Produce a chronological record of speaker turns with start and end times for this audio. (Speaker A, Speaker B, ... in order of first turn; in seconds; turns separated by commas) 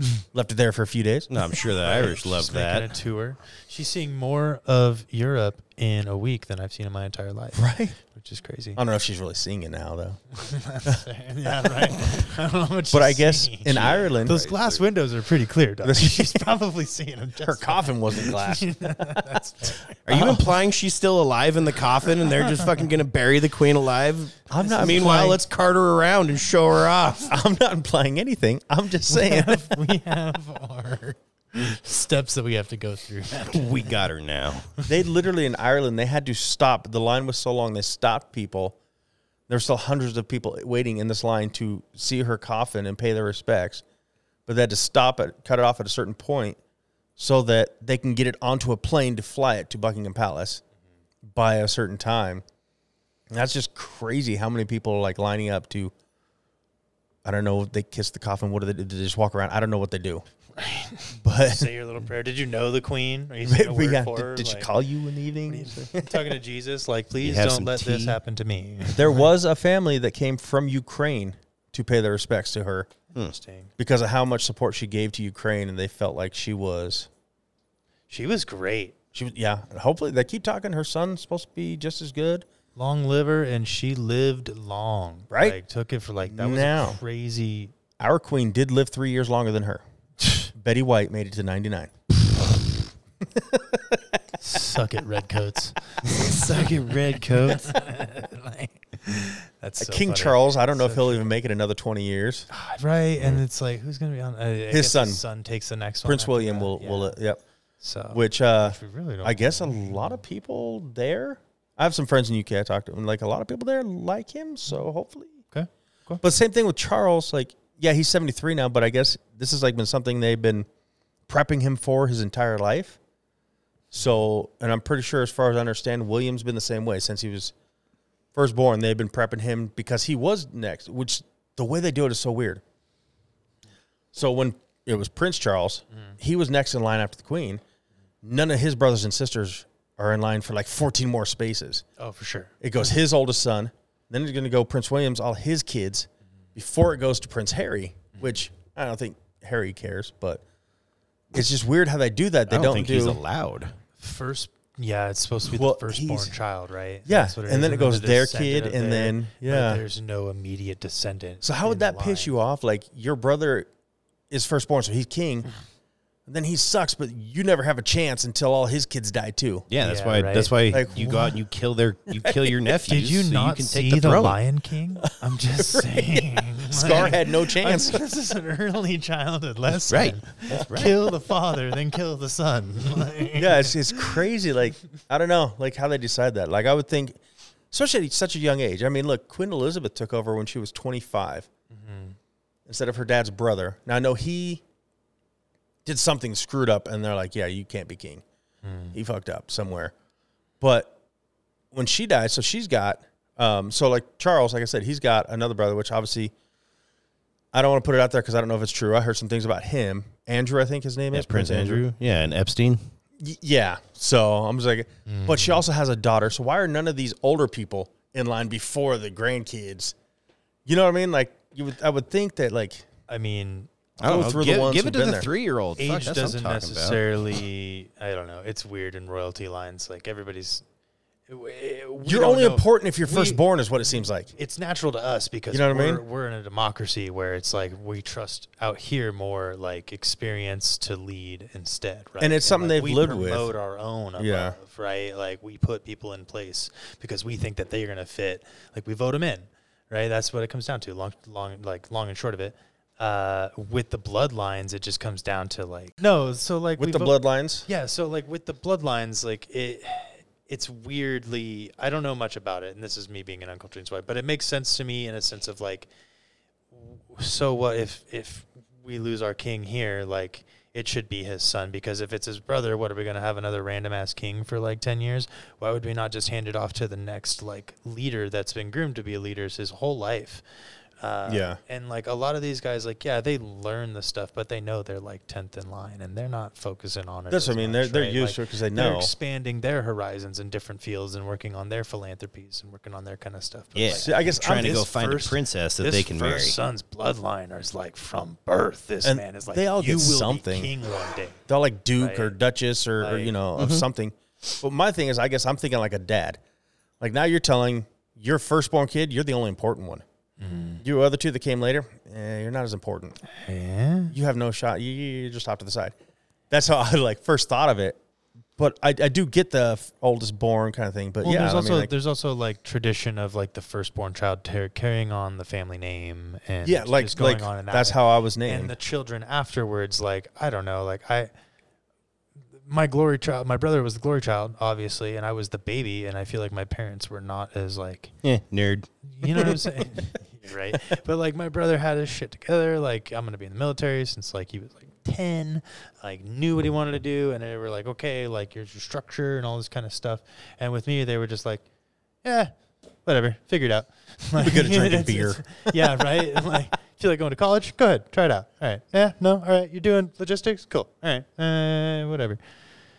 Speaker A: 0.3-1.5, Speaker B: 1.3-2.9, Speaker C: 1.8-8.8, Speaker A: 7.5-8.0, Speaker A: 8.8-10.2, Speaker C: 10.3-19.9, Speaker A: 12.9-14.5, Speaker B: 14.2-14.8, Speaker A: 15.8-16.4, Speaker A: 17.4-18.6, Speaker B: 20.1-27.3, Speaker A: 20.1-20.4, Speaker A: 24.5-25.4, Speaker C: 24.6-25.1, Speaker A: 27.3-29.8, Speaker C: 29.1-33.9, Speaker B: 33.5-34.7, Speaker A: 34.9-38.8, Speaker A: 39.5-43.8, Speaker A: 44.5-46.6, Speaker A: 47.2-50.6, Speaker A: 51.2-52.4, Speaker A: 53.3-55.9, Speaker A: 57.2-60.2, Speaker C: 60.6-64.7, Speaker A: 61.2-61.7, Speaker A: 63.4-66.3, Speaker C: 65.5-69.3, Speaker B: 67.2-68.2, Speaker A: 68.9-72.9, Speaker C: 73.2-73.7, Speaker A: 73.8-77.1, Speaker C: 78.1-78.9, Speaker A: 79.1-82.5, Speaker C: 82.7-87.7, Speaker A: 85.3-85.6, Speaker A: 86.2-87.0, Speaker A: 88.0-89.8, Speaker A: 90.5-91.9, Speaker A: 93.3-94.2, Speaker C: 94.4-101.3, Speaker B: 96.0-97.7, Speaker A: 99.8-102.5, Speaker C: 102.5-107.2, Speaker A: 104.7-105.2, Speaker A: 106.0-107.4, Speaker C: 107.8-110.2, Speaker A: 108.1-115.4, Speaker C: 115.5-116.2, Speaker A: 116.2-120.7, Speaker A: 121.3-123.0, Speaker A: 123.9-127.5, Speaker A: 128.3-132.6, Speaker A: 134.1-137.6, Speaker A: 138.2-141.8, Speaker C: 142.0-142.5, Speaker A: 142.6-150.4, Speaker A: 151.3-153.2, Speaker B: 152.5-153.8, Speaker C: 154.0-162.3, Speaker A: 155.4-156.4, Speaker A: 157.1-159.8, Speaker A: 161.4-163.7, Speaker A: 164.3-165.5, Speaker A: 166.3-169.7, Speaker B: 169.7-174.4, Speaker C: 169.8-170.6, Speaker A: 170.7-171.4, Speaker A: 172.2-172.6, Speaker C: 172.9-184.0, Speaker A: 175.5-178.0, Speaker B: 179.9-181.0, Speaker A: 183.3-187.2, Speaker A: 187.7-191.5, Speaker C: 191.7-192.2, Speaker A: 192.7-194.6, Speaker A: 195.8-198.2, Speaker C: 198.6-198.9, Speaker A: 198.9-199.9, Speaker A: 200.6-200.9, Speaker A: 201.7-206.3, Speaker A: 207.5-211.8, Speaker B: 211.1-212.9, Speaker A: 213.2-219.9, Speaker C: 215.1-215.6, Speaker A: 220.7-222.9, Speaker C: 223.1-223.7, Speaker B: 224.0-227.0, Speaker A: 224.0-225.3, Speaker C: 225.8-230.6, Speaker C: 231.3-265.9, Speaker A: 232.0-234.3, Speaker A: 235.5-236.0, Speaker A: 242.2-243.5, Speaker A: 244.2-244.6, Speaker A: 256.8-257.7, Speaker C: 266.7-280.4, Speaker C: 281.0-301.4, Speaker A: 281.2-281.6, Speaker A: 287.3-289.1, Speaker B: 293.7-296.6, Speaker A: 293.9-294.9, Speaker A: 299.0-300.7, Speaker A: 301.5-306.4, Speaker C: 302.0-302.3, Speaker C: 303.0-303.3, Speaker B: 303.6-303.9, Speaker A: 307.0-310.0, Speaker C: 310.4-310.8, Speaker A: 310.8-313.2, Speaker C: 313.3-314.1, Speaker A: 314.1-315.9, Speaker A: 316.5-318.0, Speaker A: 318.6-321.9, Speaker C: 321.2-331.3, Speaker A: 326.6-328.7, Speaker C: 332.6-338.1, Speaker B: 338.2-338.9, Speaker C: 339.1-351.6, Speaker C: 352.2-352.5, Speaker C: 353.0-362.4, Speaker A: 354.4-356.1